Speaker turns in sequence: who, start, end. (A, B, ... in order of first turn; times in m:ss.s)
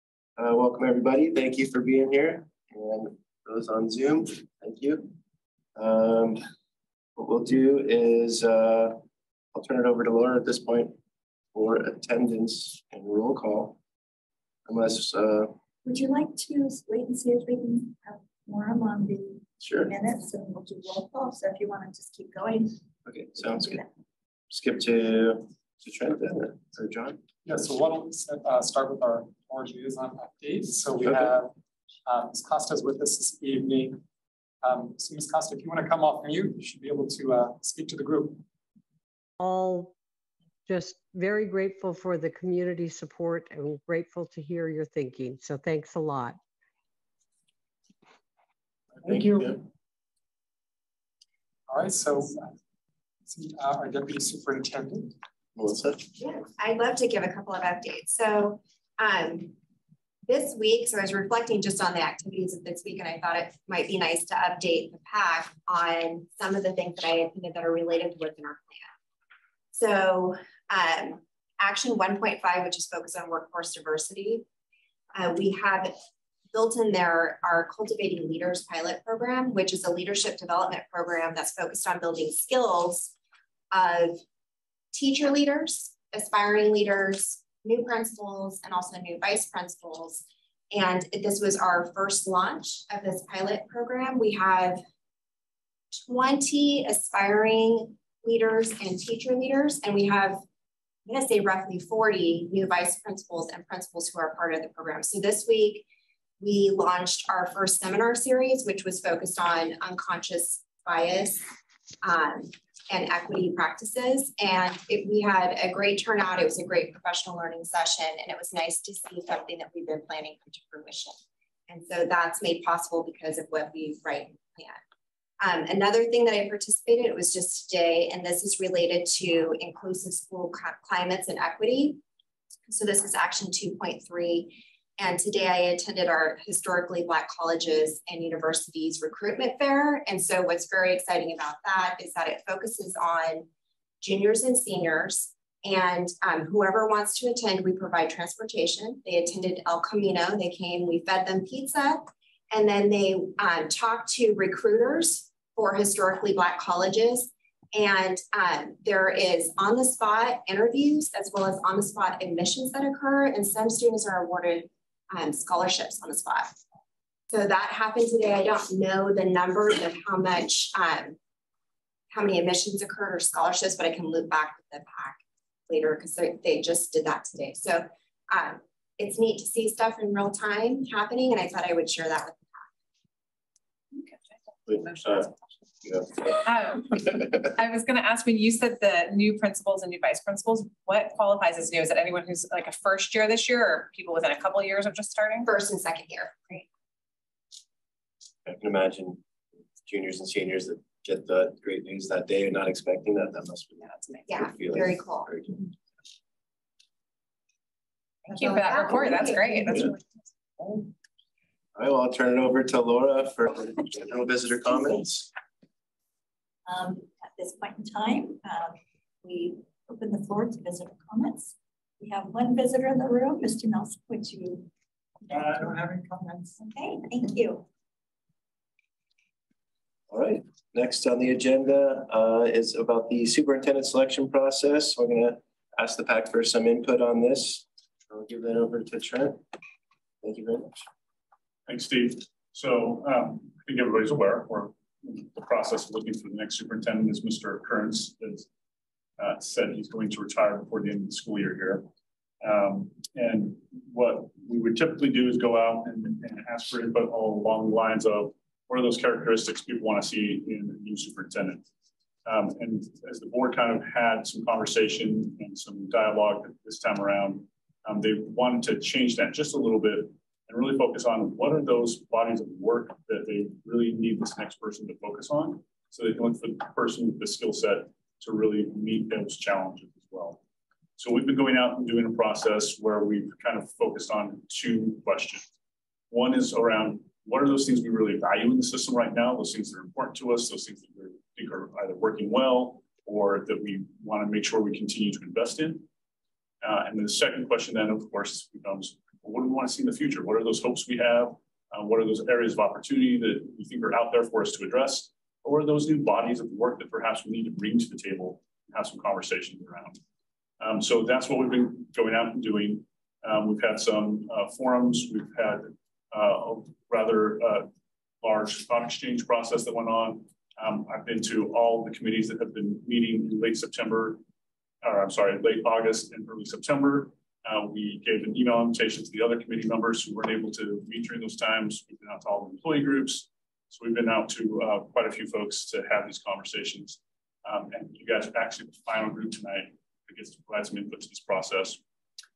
0:00.4-0:05.2 A
0:05.8-0:06.4 A
0:07.2-0:09.0 A
0:09.5-0:11.0 A
0:11.5-0:13.8 A
0:14.7-0:15.6 A
0:15.8-0:22.8 B
0:19.6-0:19.9 A
0:23.1-0:23.8 A
0:24.5-0:27.2 A
0:27.4-0:31.5 C
0:32.1-0:34.0 C
0:34.6-0:38.4 C
0:39.4-0:39.9 D
0:40.7-0:46.4 D
0:49.0-0:49.6 A
0:49.0-0:49.6 C
0:51.7-0:52.6 C
0:53.3-0:55.2 C
0:55.6-0:56.1 A
0:56.2-0:59.6 E
1:00.3-1:08.9 E
1:09.7-1:14.4 E
1:15.1-1:15.9 E
1:16.5-1:23.1 E
1:23.7-1:24.2 E
1:24.9-1:34.8 E
1:35.9-1:40.4 E
1:41.1-1:45.9 E
1:46.4-1:51.4 E
1:52.0-2:01.2 E
2:01.7-2:04.8 E
2:05.4-2:12.0 E
2:12.7-2:23.5 E
2:24.0-2:46.6 E
2:47.3-2:51.2 E
2:52.1-3:02.7 E
3:03.9-3:05.6 F
3:04.7-3:05.3 A
3:05.8-3:07.4 A
3:06.3-3:15.5 F
3:15.4-3:16.7 E
3:18.4-3:19.2 A
3:19.8-3:25.7 A
3:23.8-3:24.3 F
3:24.3-3:25.3 E
3:28.3-3:29.9 E
3:28.3-3:30.0 F
3:31.8-3:35.3 A
3:36.7-3:44.7 B
3:45.3-3:47.7 B
3:50.1-3:59.4 A
4:00.2-4:00.8 A
4:01.7-4:08.5 G
4:09.2-4:11.9 G
4:12.4-4:21.6 G
4:22.2-4:40.4 G
4:41.0-4:45.5 G
4:46.1-4:55.9 G
4:56.6-5:10.0 G
5:10.6-5:17.7 G
5:18.2-5:24.2 G
5:24.8-5:41.8 G